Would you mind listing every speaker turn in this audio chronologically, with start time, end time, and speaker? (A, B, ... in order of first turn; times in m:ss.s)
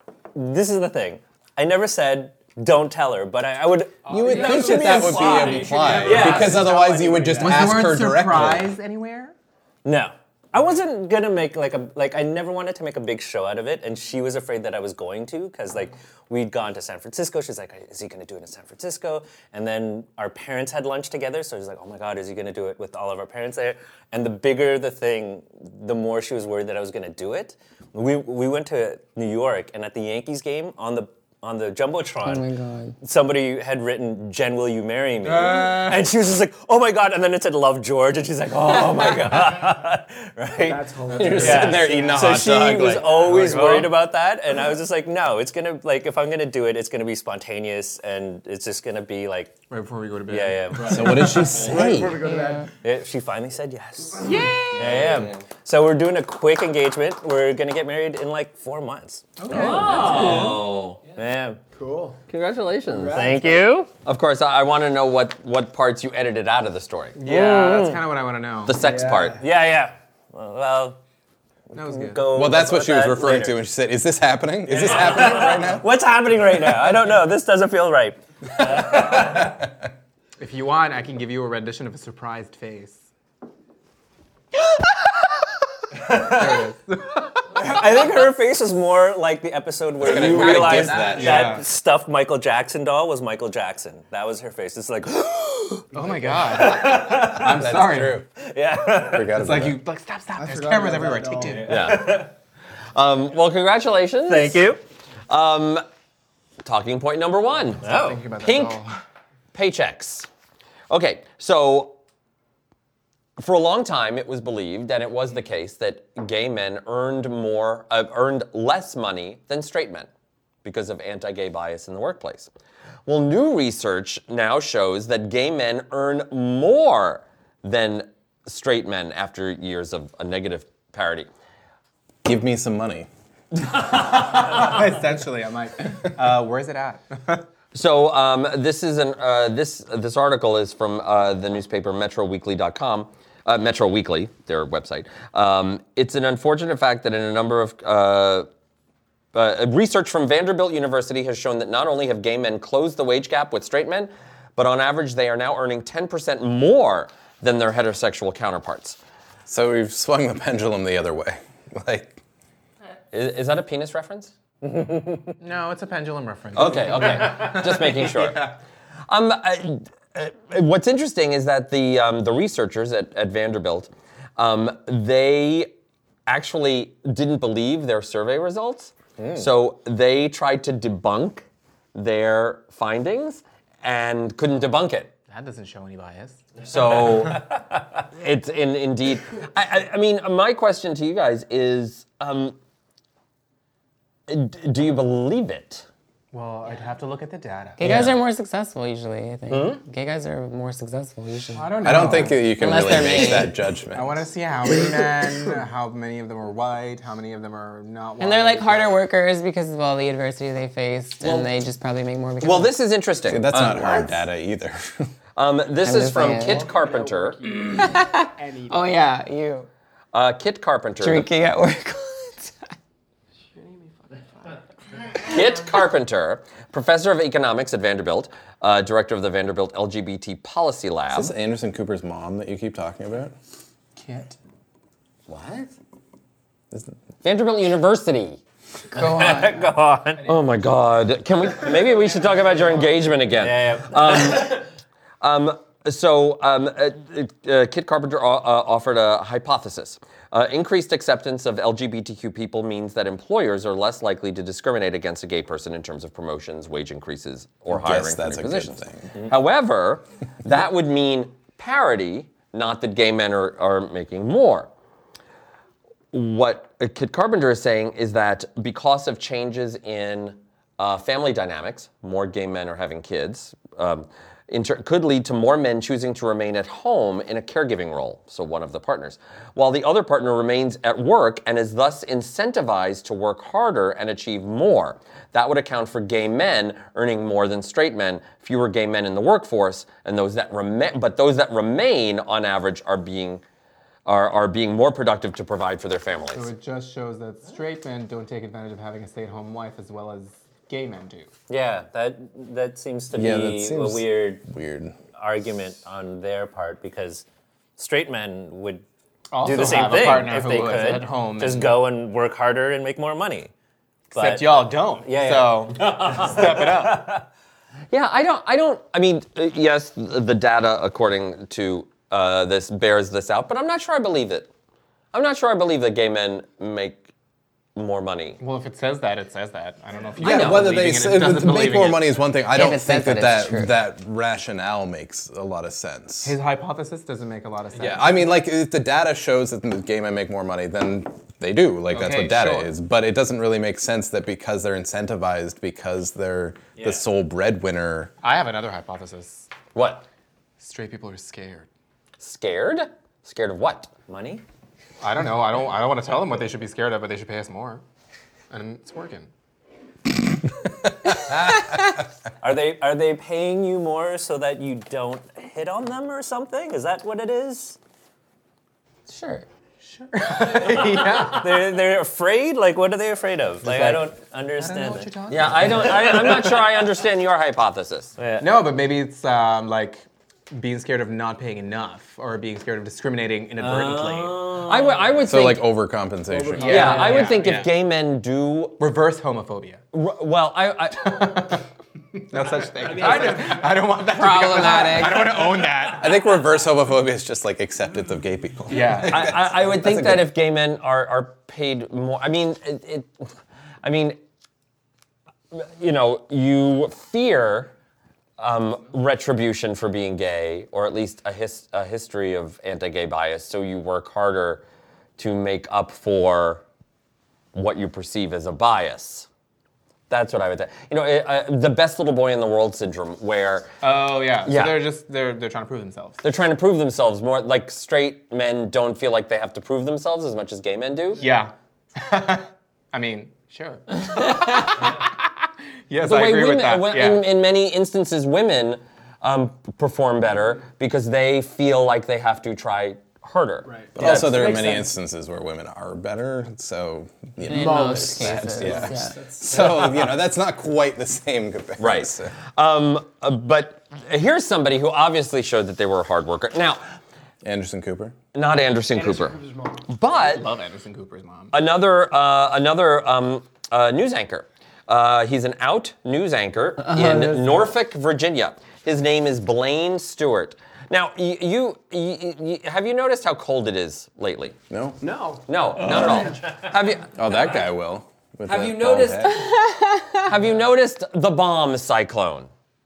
0:00.3-0:06.9 A
0:04.1-0:08.7 B
0:04.2-0:06.3 C
0:04.3-0:07.8 D
0:07.4-0:09.3 C
0:09.8-0:32.5 A
0:32.2-0:33.0 E
0:33.0-0:49.5 A
0:35.2-0:36.1 C
0:40.6-0:42.2 D
0:41.1-0:43.2 B
0:41.2-0:41.9 C
0:43.1-0:43.9 C
0:49.7-0:51.7 C
0:50.3-0:51.5 A
0:50.8-0:52.7 D
0:50.9-0:52.2 B
0:52.2-0:52.7 E
0:52.8-1:00.6 A
0:54.2-0:55.3 D
0:54.2-0:55.3 C
0:59.4-1:00.5 C
0:59.5-1:00.1 B
0:59.5-1:01.0 F
0:59.6-1:00.6 D
1:01.1-1:01.6 A
1:01.7-1:02.2 D
1:02.3-1:03.0 F
1:02.9-1:03.7 D
1:02.9-1:03.9 A
1:04.0-1:07.2 F
1:07.2-1:08.8 C
1:07.2-1:08.0 A
1:08.6-1:09.4 F
1:08.7-1:09.4 D
1:09.4-1:11.0 A
1:11.7-1:12.3 C
1:11.8-1:13.6 A
1:12.3-1:15.9 B
1:14.7-1:19.6 A
1:18.8-1:19.4 C
1:19.1-1:19.7 B
1:20.4-1:23.0 C
1:26.0-1:26.6 A
1:26.0-1:27.8 C
1:27.5-1:37.6 A
1:30.0-1:31.6 B
1:30.0-1:31.6 C
1:35.9-1:38.2 C
1:37.1-1:38.3 B
1:38.4-1:39.4 A
1:39.1-1:39.8 B
1:39.3-1:41.9 C
1:40.4-1:41.8 D
1:41.6-1:42.3 F
1:41.7-1:42.3 A
1:42.9-1:44.7 F
1:44.2-1:44.8 A
1:45.3-1:45.8 F
1:46.6-1:47.8 F
1:47.8-1:48.9 C
1:47.8-1:48.2 A
1:48.4-1:48.8 F
1:49.5-1:50.3 F
1:50.9-1:52.0 F
1:53.4-2:00.1 F
2:00.6-2:02.5 F
2:03.0-2:11.3 F
2:12.2-2:13.1 B
2:13.9-2:17.4 C
2:17.7-2:28.5 F
2:29.3-2:39.0 F
2:39.5-2:42.2 B
2:43.1-2:44.3 F
2:44.6-2:45.3 A
2:45.4-2:48.5 C
2:46.5-2:48.4 F
2:49.1-2:55.7 F
2:56.3-3:05.1 F
2:59.2-2:59.5 A
3:05.3-3:06.5 C
3:06.6-3:07.5 F
3:08.1-3:12.6 F
3:14.3-3:15.8 F
3:16.3-3:17.9 C
3:17.8-3:23.5 E
3:19.5-3:19.8 F
3:21.5-3:29.0 C
3:21.8-3:24.1 B
3:28.2-3:32.7 E
3:31.2-3:31.5 F
3:32.4-3:34.2 F
3:33.3-3:35.1 B
3:35.4-3:37.4 F
3:35.8-3:36.7 E
3:36.3-3:39.0 D
3:37.7-3:39.7 E
3:40.1-3:41.3 F
3:41.0-3:42.7 E
3:43.5-3:45.1 D
3:45.2-3:51.3 F
3:51.1-3:53.3 B
3:54.0-3:54.4 C
3:55.3-3:55.7 F
3:57.2-3:58.4 F
3:58.9-3:59.7 E
3:58.9-4:00.4 A
4:00.2-4:04.6 F
4:03.4-4:04.6 A
4:05.2-4:24.7 F
4:17.7-4:19.1 B
4:26.1-4:53.4 F
4:54.0-4:56.5 F
4:56.3-5:01.3 C
5:01.5-5:04.4 A
5:03.1-5:04.9 B
5:05.2-5:07.2 A
5:07.8-5:08.8 A
5:09.3-5:11.8 C
5:09.4-5:13.5 A
5:14.1-5:17.2 C
5:14.1-5:17.2 A
5:17.9-5:24.5 F
5:25.1-5:27.0 F
5:27.8-5:28.4 F
5:28.4-5:32.1 C
5:30.2-5:36.4 B
5:30.2-5:30.6 F
5:32.5-5:33.7 E
5:36.2-5:38.2 C
5:37.7-5:48.1 B
5:41.9-5:42.7 C
5:48.2-5:49.5 C
5:49.7-5:50.0 F
5:50.6-5:51.7 C
5:52.2-5:54.1 F
5:54.1-5:54.4 A
5:55.0-5:57.8 C
5:58.5-5:59.3 C
6:01.3-6:01.6 B
6:02.4-6:07.8 A
6:09.1-6:09.4 E
6:09.9-6:11.7 C
6:10.5-6:16.5 A
6:13.6-6:14.0 C
6:14.6-6:16.5 C
6:15.3-6:18.1 F
6:18.2-6:18.5 A
6:18.4-6:24.4 C
6:23.6-6:25.2 A
6:24.6-6:25.6 F
6:25.3-6:27.0 B
6:26.3-6:27.4 D
6:26.5-6:27.7 C
6:26.6-6:28.8 F
6:28.8-6:29.8 C
6:29.9-6:31.3 F
6:31.0-6:31.6 C
6:32.2-6:36.2 C
6:32.8-6:33.6 D
6:34.0-6:35.4 E
6:36.0-6:40.3 B
6:38.7-6:39.3 C
6:39.1-6:43.1 F
6:43.8-6:44.2 F
6:45.5-6:47.7 F
6:48.4-6:54.6 F
6:55.2-6:56.6 F
6:57.5-6:59.3 F
7:00.1-7:03.7 F
7:03.8-7:06.2 C
7:04.4-7:04.8 F
7:06.2-7:11.2 F
7:11.2-7:17.2 C
7:16.0-7:24.4 F
7:23.6-7:24.9 D
7:23.9-7:32.4 B
7:27.4-7:29.2 E
7:27.5-7:30.0 D
7:31.8-7:36.8 F
7:37.4-7:38.1 B
7:38.3-7:40.4 F
7:38.9-7:39.9 D
7:40.1-7:41.5 C
7:41.5-7:54.6 F
7:46.9-7:47.4 E
7:54.7-7:55.0 B
7:55.0-7:55.4 D
7:55.5-7:57.1 F
7:55.8-7:56.3 B
7:57.1-7:59.5 B
7:58.4-7:59.5 F
7:59.3-8:00.3 E
8:00.2-8:02.5 F